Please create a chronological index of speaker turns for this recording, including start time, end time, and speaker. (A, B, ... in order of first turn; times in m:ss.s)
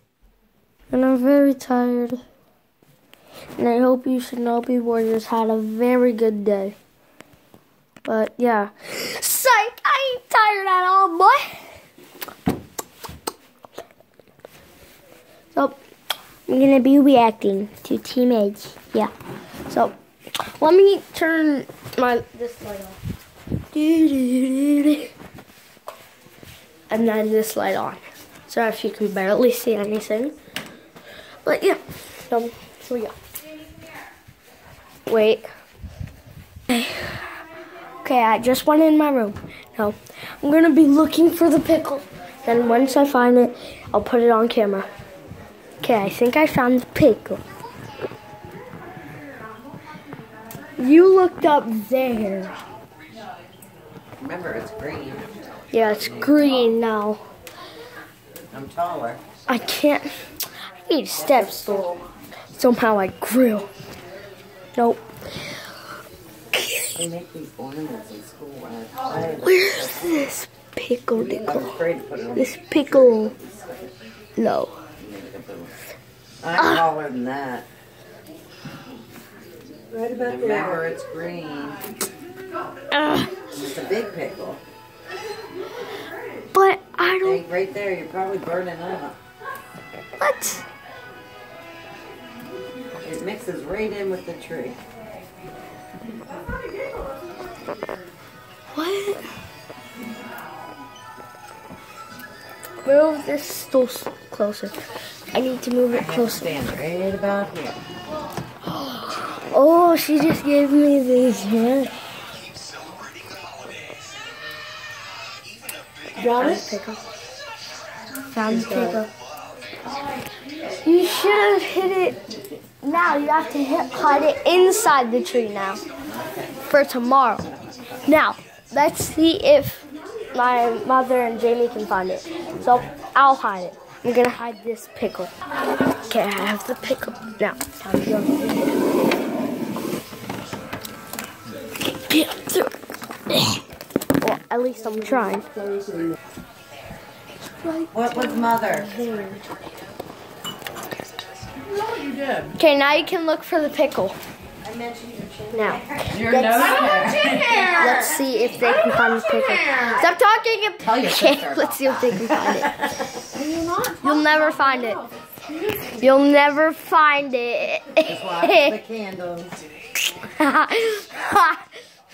0:00.9-0:02.2 A
0:03.6-0:06.8 A
0:08.0-0:11.7 A
0:16.5-0:19.1 A
0:19.7-0:19.9 A
0:20.6-0:23.0 A
0:23.7-0:25.1 A
0:26.9-0:30.3 A
0:31.4-0:33.2 A
0:35.1-0:35.5 A
0:36.7-0:37.2 A
0:38.0-0:44.9 A
0:45.8-0:47.4 A
0:50.8-0:52.6 A
0:54.2-0:56.7 B
0:55.7-0:57.2 A
0:58.5-0:59.2 B
0:59.5-1:00.1 A
1:00.9-1:02.0 A
1:01.2-1:02.0 B
1:02.6-1:03.7 A
1:04.8-1:05.0 A
1:06.5-1:07.0 A
1:06.9-1:10.1 B
1:09.4-1:11.8 A
1:11.1-1:14.0 B
1:12.4-1:13.3 A
1:14.4-1:14.8 A
1:15.0-1:15.8 B
1:16.4-1:17.7 B
1:16.6-1:16.9 A
1:19.9-1:20.8 C
1:20.2-1:21.9 B
1:22.9-1:23.4 A
1:23.5-1:24.6 B
1:26.5-1:27.4 A
1:27.2-1:29.2 B
1:30.2-1:30.6 A
1:33.0-1:34.8 B
1:38.7-1:39.2 A
1:42.8-1:44.8 A
1:45.3-1:46.6 A
1:45.9-1:47.8 B
1:48.7-1:51.9 A
1:56.2-1:57.0 A
1:56.2-1:56.6 C
1:58.3-1:59.1 A
1:58.6-1:58.9 B
2:00.7-2:02.2 A
2:02.8-2:05.8 A
2:06.1-2:06.5 B
2:06.7-2:07.5 A
2:08.0-2:15.3 A
2:16.0-2:18.8 A
2:22.0-2:22.7 A
2:23.3-2:23.6 A
2:24.2-2:25.5 A
2:25.7-2:26.0 C
2:27.6-2:29.6 A
2:27.9-2:29.0 B
2:31.6-2:32.6 C
2:32.6-2:34.2 A
2:34.6-2:38.8 B
2:35.5-2:42.9 A
2:36.5-2:40.0 C
2:40.8-2:43.1 B
2:43.3-2:46.2 C
2:44.0-2:45.0 A
2:46.0-2:48.8 A
2:48.0-2:49.6 B
2:50.1-2:51.6 A